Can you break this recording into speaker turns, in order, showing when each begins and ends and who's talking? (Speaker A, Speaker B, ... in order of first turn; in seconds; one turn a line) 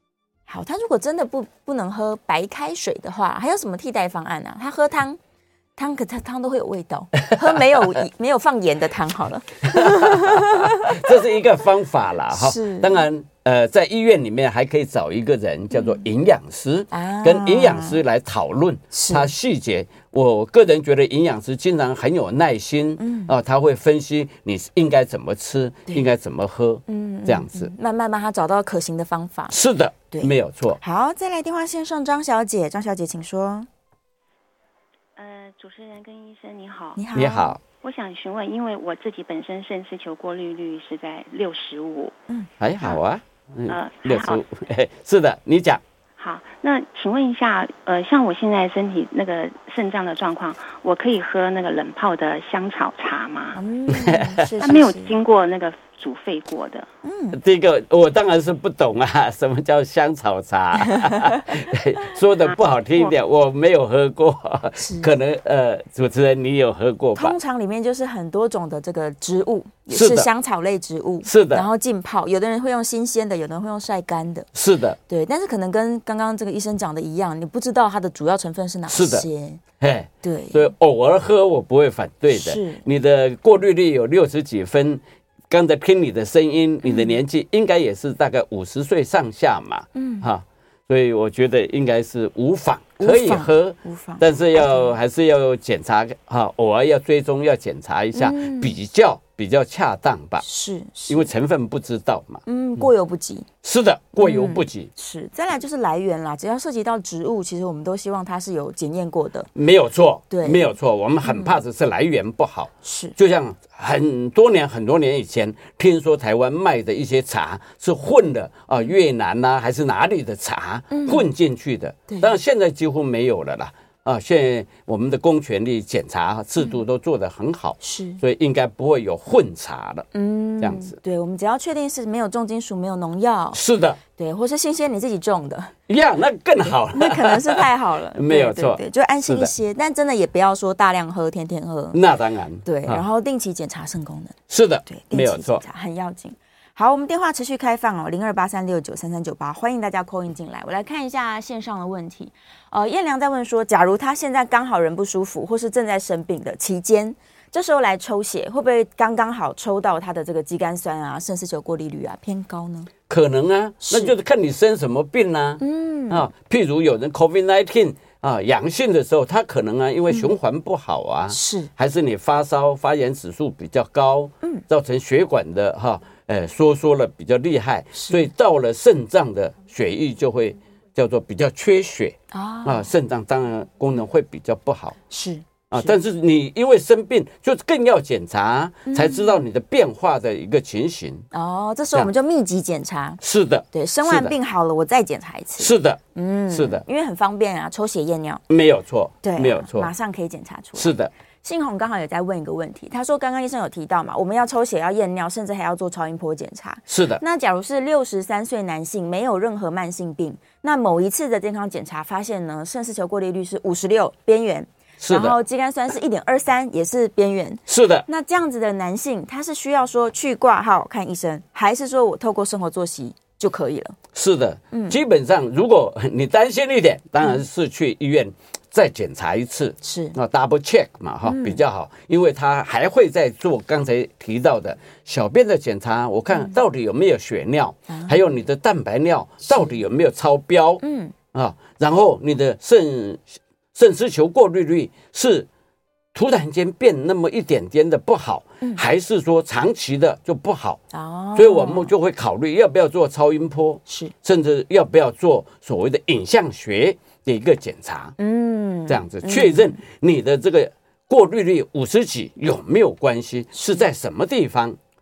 Speaker A: 0.5-5.2
Speaker A: 5.8-11.1
Speaker B: 9.7-27.7
Speaker A: 12.3-13.1
Speaker A: 15.7-16.0
Speaker A: 16.9-18.0
Speaker A: 18.9-19.3
Speaker A: 23.0-23.3
Speaker A: 26.9-29.6
Speaker B: 29.5-30.8
Speaker A: 30.1-33.7
Speaker C: 35.1-37.0
Speaker A: 37.0-37.6
Speaker B: 37.1-37.6
Speaker C: 37.7-42.1
Speaker B: 42.6-45.8
Speaker C: 43.7-44.4
Speaker C: 46.2-53.6
Speaker A: 53.5-55.2
Speaker B: 53.9-54.5
Speaker C: 54.6-56.9
Speaker A: 57.0-57.4
Speaker B: 57.3-67.4
Speaker A: 61.0-61.4
Speaker C: 62.5-63.1
Speaker A: 64.8-65.1
Speaker A: 67.2-74.5
Speaker B: 69.9-70.3
Speaker B: 71.2-71.7
Speaker B: 74.5-75.0
Speaker A: 75.1-79.6
Speaker B: 78.9-79.2
Speaker B: 79.8-100.4
Speaker A: 80.2-80.7
Speaker A: 82.3-82.8
Speaker A: 86.8-87.1
Speaker A: 89.9-90.3
Speaker A: 93.0-94.9
Speaker A: 98.1-98.8
Speaker A: 100.4-101.3
Speaker B: 101.1-102.9
Speaker A: 102.5-103.5
Speaker B: 103.6-104.9
Speaker A: 104.2-109.5
Speaker B: 109.5-130.1
Speaker A: 110.3-110.7
Speaker A: 111.2-111.5
Speaker A: 112.8-113.1
Speaker A: 120.9-121.3
Speaker A: 122.1-122.3
Speaker A: 127.8-128.2
Speaker A: 130.1-133.6
Speaker B: 130.6-130.9
Speaker B: 133.5-134.0
Speaker A: 134.2-135.7
Speaker B: 135.9-139.5
Speaker A: 136.8-142.0
Speaker B: 141.9-143.0
Speaker A: 142.6-162.9
Speaker B: 144.5-145.6
Speaker B: 163.1-184.9
Speaker A: 163.8-164.1
Speaker A: 165.6-166.3
Speaker A: 171.3-171.7
Speaker A: 177.9-178.3
Speaker A: 182.3-182.9
Speaker A: 185.1-185.9
Speaker B: 185.7-191.3
Speaker A: 188.9-189.4
Speaker A: 191.3-193.2
Speaker B: 193.2-194.3
Speaker A: 193.7-198.4
Speaker B: 195.6-196.0
Speaker B: 196.5-196.8
Speaker B: 198.5-199.9
Speaker A: 199.2-223.9
Speaker B: 200.8-201.1
Speaker B: 206.9-207.2
Speaker B: 215.0-215.3
Speaker B: 217.7-218.1
Speaker B: 224.1-240.8
Speaker A: 224.7-225.0
Speaker A: 229.8-230.2
Speaker A: 231.2-231.6
Speaker A: 236.3-236.6
Speaker A: 237.9-238.2
Speaker A: 239.4-239.8
Speaker A: 240.8-241.1
Speaker B: 241.3-245.5
Speaker B: 246.1-250.8
Speaker A: 250.9-251.9
Speaker B: 251.3-258.1
Speaker A: 253.9-254.1
Speaker A: 258.2-259.8
Speaker B: 258.9-264.8
Speaker A: 263.5-263.8